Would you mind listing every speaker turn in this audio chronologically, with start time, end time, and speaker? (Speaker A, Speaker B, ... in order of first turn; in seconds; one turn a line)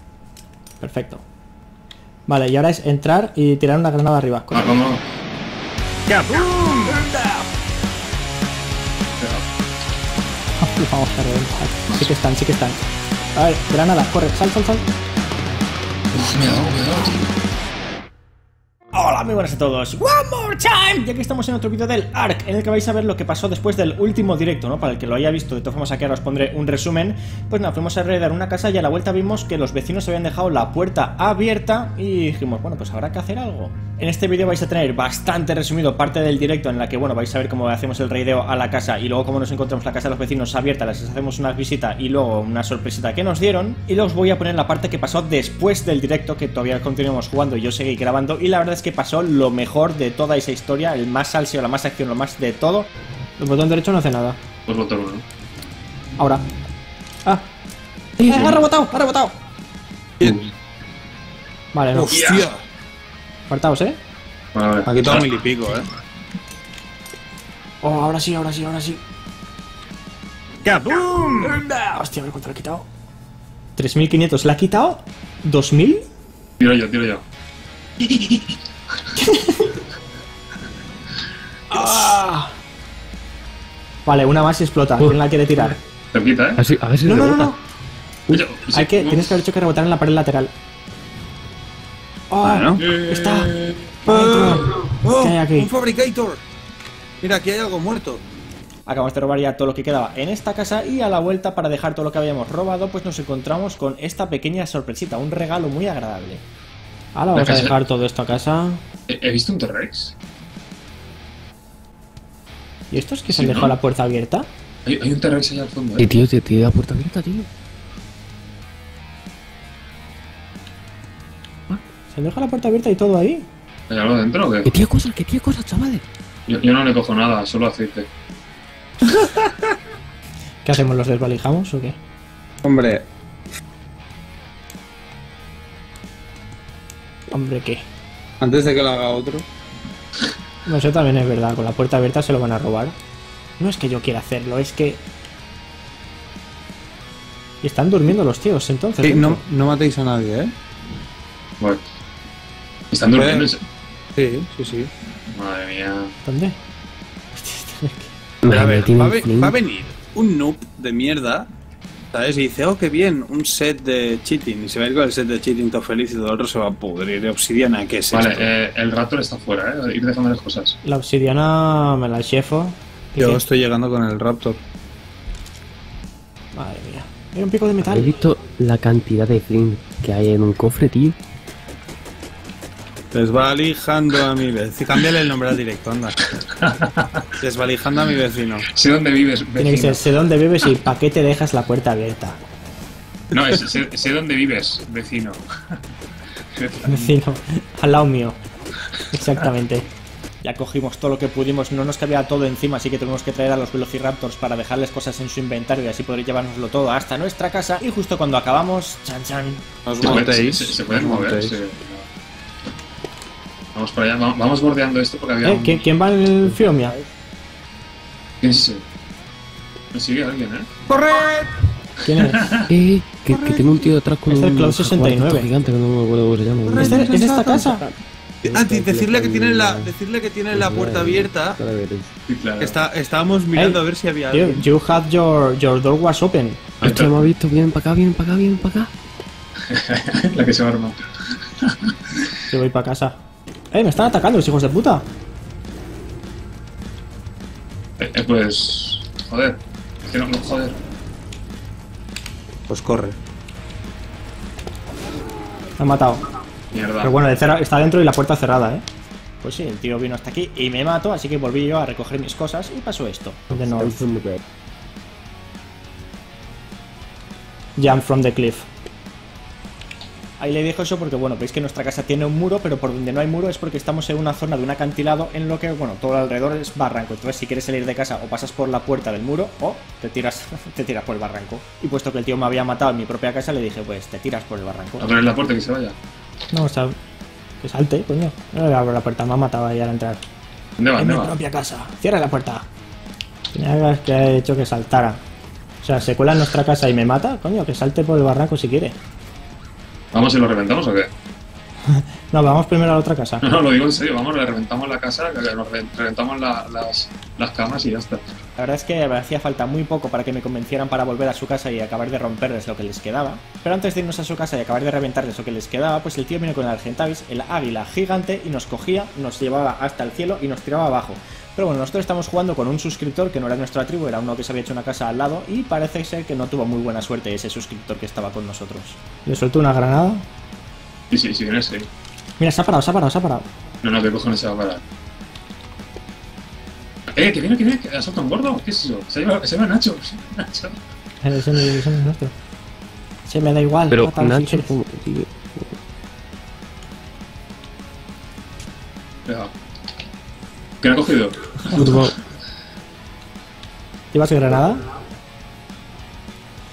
Speaker A: 0.8-1.2
Speaker A: 2.3-4.8
Speaker B: 4.5-5.0
Speaker C: 6.1-7.2
Speaker B: 9.2-9.4
Speaker A: 10.6-12.8
Speaker A: 13.4-14.9
Speaker B: 16.1-17.3
Speaker A: 18.9-52.9
Speaker A: 53.4-54.4
Speaker B: 54.7-55.2
Speaker A: 58.2-59.4
Speaker B: 58.3-58.6
Speaker A: 61.7-62.2
Speaker C: 62.0-62.6
Speaker A: 63.5-64.0
Speaker B: 64.5-65.3
Speaker C: 64.9-65.9
Speaker A: 67.8-69.0
Speaker C: 70.7-71.6
Speaker A: 71.4-72.9
Speaker A: 73.8-76.0
Speaker B: 76.6-77.2
Speaker B: 78.0-78.5
Speaker A: 79.2-79.8
Speaker A: 81.7-82.5
Speaker A: 84.1-85.8
Speaker B: 86.1-86.6
Speaker D: 86.6-87.5
Speaker A: 87.0-87.6
Speaker A: 88.3-90.5
Speaker B: 88.3-89.4
Speaker A: 92.3-95.7
Speaker C: 92.4-93.4
Speaker C: 94.0-96.4
Speaker C: 97.2-98.2
Speaker A: 98.9-106.4
Speaker A: 107.2-108.8
Speaker B: 107.3-107.7
Speaker B: 109.1-110.1
Speaker A: 112.9-114.5
Speaker B: 113.3-113.8
Speaker B: 114.8-116.1
Speaker D: 116.0-117.5
Speaker A: 121.7-123.5
Speaker B: 123.9-124.8
Speaker D: 124.7-126.0
Speaker B: 126.5-128.1
Speaker A: 130.6-132.0
Speaker C: 132.6-133.1
Speaker A: 137.3-137.9
Speaker C: 138.4-139.5
Speaker A: 140.7-143.0
Speaker A: 143.6-145.0
Speaker A: 147.6-149.4
Speaker C: 149.0-150.5
Speaker B: 151.6-151.8
Speaker B: 152.9-153.6
Speaker C: 153.1-153.5
Speaker C: 154.2-154.9
Speaker B: 155.3-156.1
Speaker A: 156.2-156.6
Speaker A: 157.4-158.1
Speaker D: 158.4-159.6
Speaker C: 158.4-161.5
Speaker C: 162.1-168.5
Speaker B: 168.1-170.8
Speaker A: 170.8-173.4
Speaker C: 173.2-174.6
Speaker A: 176.5-178.1
Speaker D: 177.8-181.2
Speaker C: 183.1-186.2
Speaker B: 186.4-187.4
Speaker C: 187.4-188.7
Speaker B: 188.7-190.0
Speaker A: 189.6-192.4
Speaker B: 193.3-195.7
Speaker B: 196.6-197.2
Speaker A: 196.8-198.4
Speaker A: 199.1-199.9
Speaker A: 200.4-209.6
Speaker C: 209.9-211.6
Speaker B: 210.0-212.1
Speaker B: 213.8-215.8
Speaker A: 215.4-217.0
Speaker D: 216.4-217.1
Speaker B: 218.4-218.8
Speaker B: 219.9-220.7
Speaker C: 220.9-221.5
Speaker A: 222.0-222.5
Speaker B: 222.2-222.7
Speaker D: 222.7-227.9
Speaker C: 223.3-223.9
Speaker A: 224.3-225.5
Speaker C: 226.7-227.7
Speaker A: 226.8-227.8
Speaker C: 228.4-231.6
Speaker D: 228.4-229.9
Speaker D: 230.5-232.1
Speaker B: 232.3-232.8
Speaker C: 232.6-234.7
Speaker A: 233.5-236.7
Speaker B: 236.8-237.2
Speaker D: 236.8-238.9
Speaker B: 239.7-242.3
Speaker A: 242.5-243.2
Speaker A: 243.7-245.1
Speaker B: 248.0-250.8
Speaker C: 252.7-253.2
Speaker A: 255.8-256.2
Speaker B: 256.7-257.3
Speaker A: 257.0-258.8
Speaker A: 259.4-264.1
Speaker D: 263.8-264.4
Speaker A: 267.8-268.7
Speaker A: 270.4-285.1
Speaker B: 285.0-285.9
Speaker A: 286.5-286.9
Speaker A: 287.6-290.2
Speaker B: 290.8-291.3
Speaker A: 291.0-292.7
Speaker A: 293.5-295.2
Speaker A: 295.8-299.0
Speaker B: 300.1-301.1
Speaker A: 301.9-303.4
Speaker B: 303.4-308.2
Speaker A: 308.6-330.2
Speaker B: 331.1-331.9
Speaker A: 332.4-333.5
Speaker B: 333.8-334.8
Speaker B: 337.1-340.8
Speaker A: 341.2-342.3
Speaker A: 343.3-344.7
Speaker D: 343.9-345.7
Speaker B: 349.3-349.5
Speaker B: 350.8-352.1
Speaker D: 351.8-352.1
Speaker A: 354.1-354.9